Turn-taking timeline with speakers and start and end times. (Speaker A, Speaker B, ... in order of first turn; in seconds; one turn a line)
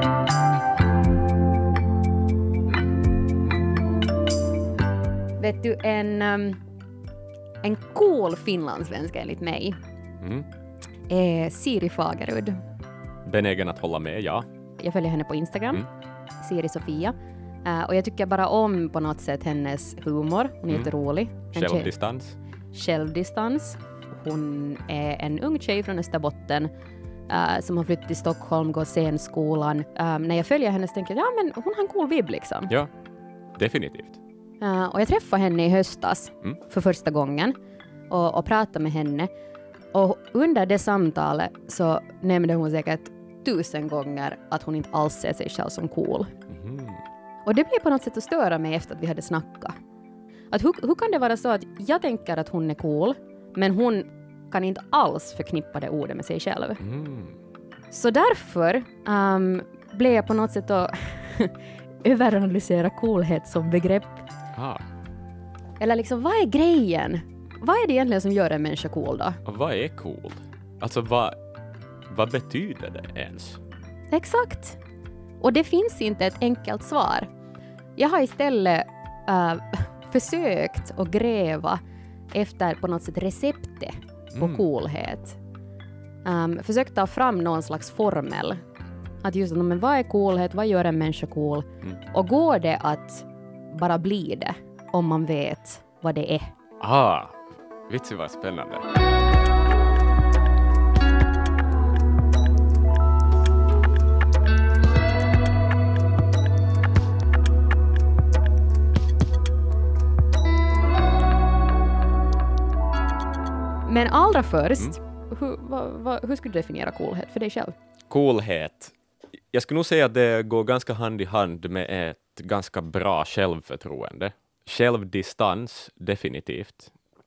Speaker A: 5.4-6.6
Speaker A: 7.6-9.8
Speaker B: 10.2-10.4
Speaker A: 11.1-12.6
Speaker B: 13.2-14.4
Speaker A: 14.8-15.8
Speaker A: 16.4-17.1
Speaker A: 17.6-21.9
Speaker B: 21.4-22.4
Speaker A: 22.7-26.7
Speaker A: 27.3-32.7
Speaker B: 33.6-34.2
Speaker A: 34.6-37.5
Speaker A: 38.1-39.3
Speaker A: 39.9-46.3
Speaker B: 46.5-47.0
Speaker A: 47.4-49.8
Speaker A: 50.5-56.8
Speaker B: 56.8-57.3
Speaker A: 57.9-64.2
Speaker B: 64.5-64.8
Speaker A: 65.8-69.4
Speaker B: 69.4-71.4
Speaker B: 72.1-73.6
Speaker A: 74.1-74.8
Speaker A: 75.4-77.3
Speaker A: 78.0-81.8
Speaker A: 82.3-85.4
Speaker B: 84.3-84.6
Speaker A: 86.2-88.6
Speaker A: 89.2-96.5
Speaker B: 96.8-98.8
Speaker A: 113.8-117.7
Speaker B: 118.1-118.9
Speaker B: 119.5-126.9